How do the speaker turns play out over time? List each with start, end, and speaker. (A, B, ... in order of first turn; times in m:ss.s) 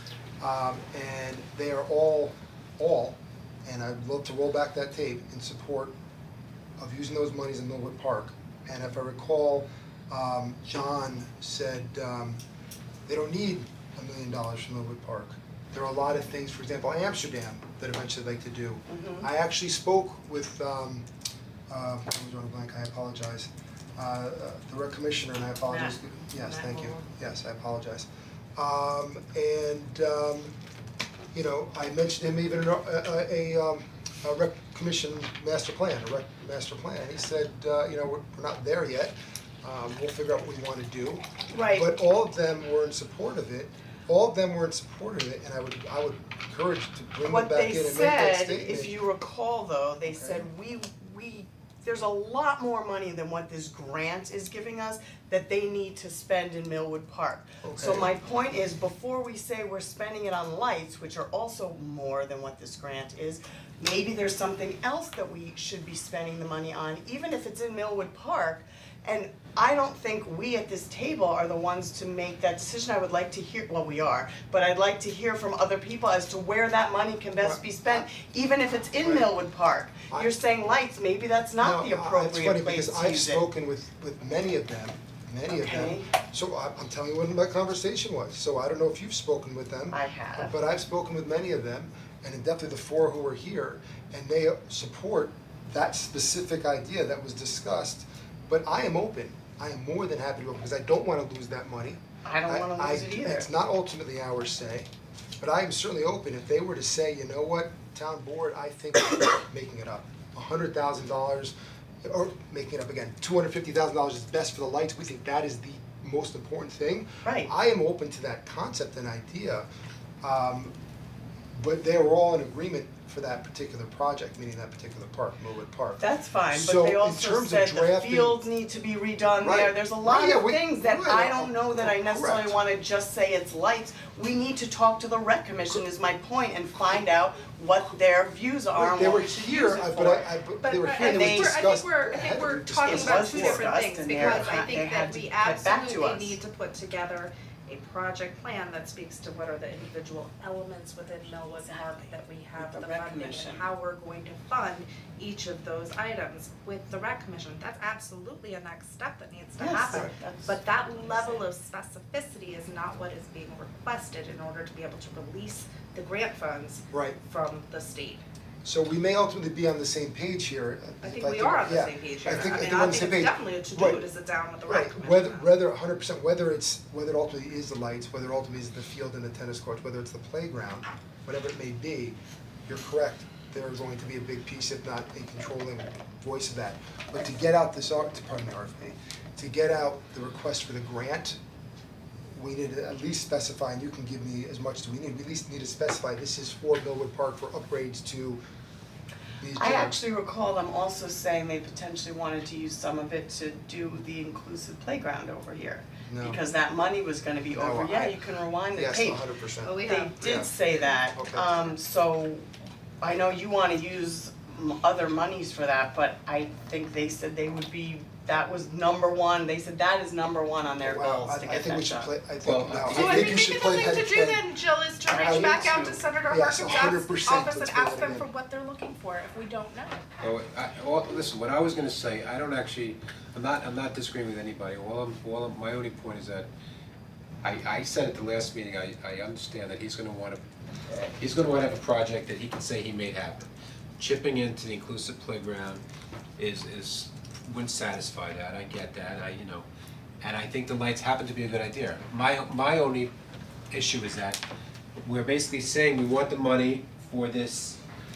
0:00.4-0:06.0 A
0:06.8-0:12.4 A
0:13.1-0:21.0 A
0:18.9-0:19.3 B
0:21.7-0:30.5 A
0:25.7-0:27.0 B
0:31.3-0:49.0 A
0:41.5-0:42.0 B
0:47.2-1:23.4 B
0:50.0-0:50.4 A
0:57.6-0:58.1 A
1:17.4-1:18.0 A
1:19.0-1:19.3 A
1:21.6-1:44.9 A
1:25.5-1:26.1 B
1:29.9-1:30.5 B
1:42.2-1:43.5 B
1:45.4-1:59.7 A
1:57.2-1:57.5 B
2:00.2-2:00.7 A
2:01.5-2:08.4 A
2:06.0-2:19.5 B
2:09.4-2:12.6 A
2:18.7-2:24.7 A
2:19.5-2:48.2 C
2:21.0-2:21.5 B
2:22.8-2:26.4 B
2:31.7-2:33.7 B
2:39.6-2:41.5 B
2:46.9-2:47.2 A
2:48.6-2:54.0 A
2:51.0-2:55.5 C
2:54.7-3:11.4 A
3:12.3-3:18.4 A
3:19.4-3:20.0 A
3:19.6-3:29.2 B
3:26.1-3:26.4 A
3:27.5-3:28.2 A
3:28.7-3:30.5 A
3:29.6-3:30.4 C
3:29.8-3:32.4 B
3:31.1-3:31.7 A
3:33.0-3:42.1 B
3:40.8-3:44.5 A
3:42.4-3:43.4 D
3:42.9-3:50.0 C
3:45.1-3:46.0 B
3:45.2-3:48.3 A
3:50.2-3:56.5 D
3:57.4-4:00.4 D
4:01.2-4:05.8 D
4:06.4-4:09.7 D
4:10.2-4:13.1 D
4:13.7-4:14.4 D
4:15.0-4:17.8 D